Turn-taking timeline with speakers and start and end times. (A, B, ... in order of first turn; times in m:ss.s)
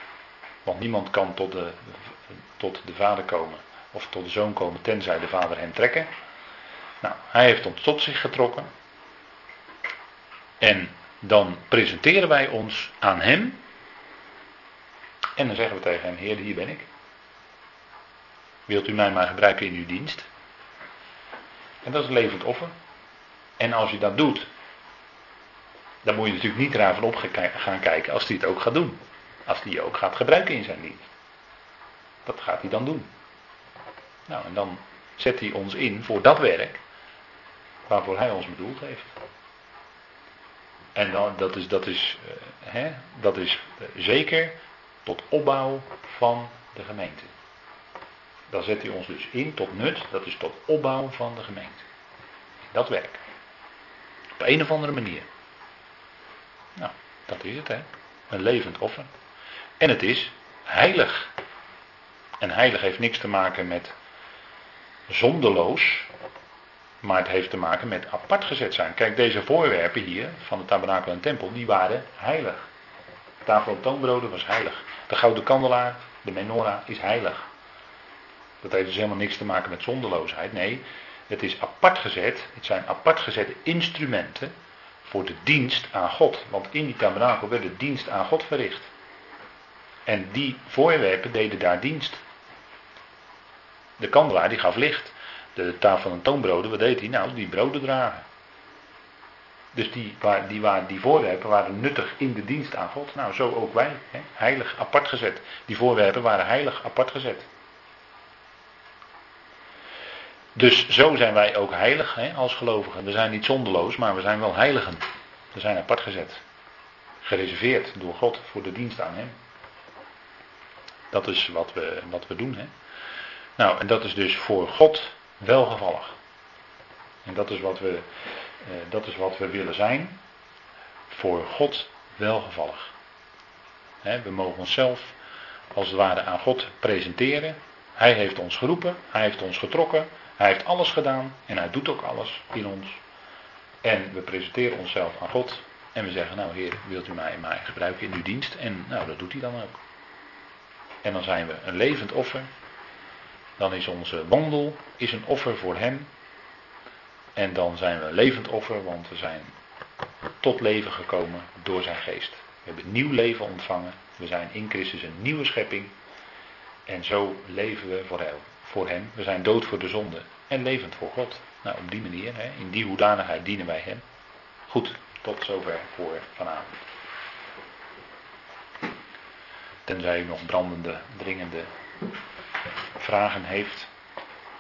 0:00.6-0:06.1 A
0:07.0-0:08.7 A
0:10.6-0:13.6 A
0:15.4-0:16.9 A
0:18.7-0:20.3 A
0:21.8-0:22.7 A
0:23.6-0:24.5 A
0:26.0-0:31.1 A
0:32.3-0:33.1 A
0:34.3-0:36.8 A
0:37.9-0:39.2 A
0:41.0-0:47.3 A
0:48.5-0:51.8 A
0:52.7-0:53.2 A
0:54.4-0:55.3 A
0:56.8-0:59.1 A
0:59.8-1:01.3 A
1:02.4-1:03.9 A
1:05.1-1:06.1 A
1:07.0-1:12.7 A
1:13.4-1:17.5 A
1:18.6-1:24.5 A
1:25.0-1:28.9 A
1:30.1-1:32.2 A
1:34.0-1:38.2 A
1:39.7-1:47.5 A
1:50.6-1:56.4 A
1:57.2-1:59.4 A
2:01.1-2:02.7 A
2:03.6-2:06.2 A
2:07.2-2:08.1 A
2:08.6-2:10.2 A
2:11.1-2:12.9 A
2:14.0-2:15.2 A
2:15.7-2:23.0 A
2:23.8-2:29.8 A
2:31.0-2:32.5 A
2:33.6-2:36.1 A
2:37.4-2:39.5 A
2:40.4-2:46.0 A
2:46.9-2:54.0 A
2:54.7-2:56.7 A
2:59.8-3:01.7 A
3:03.0-3:03.9 A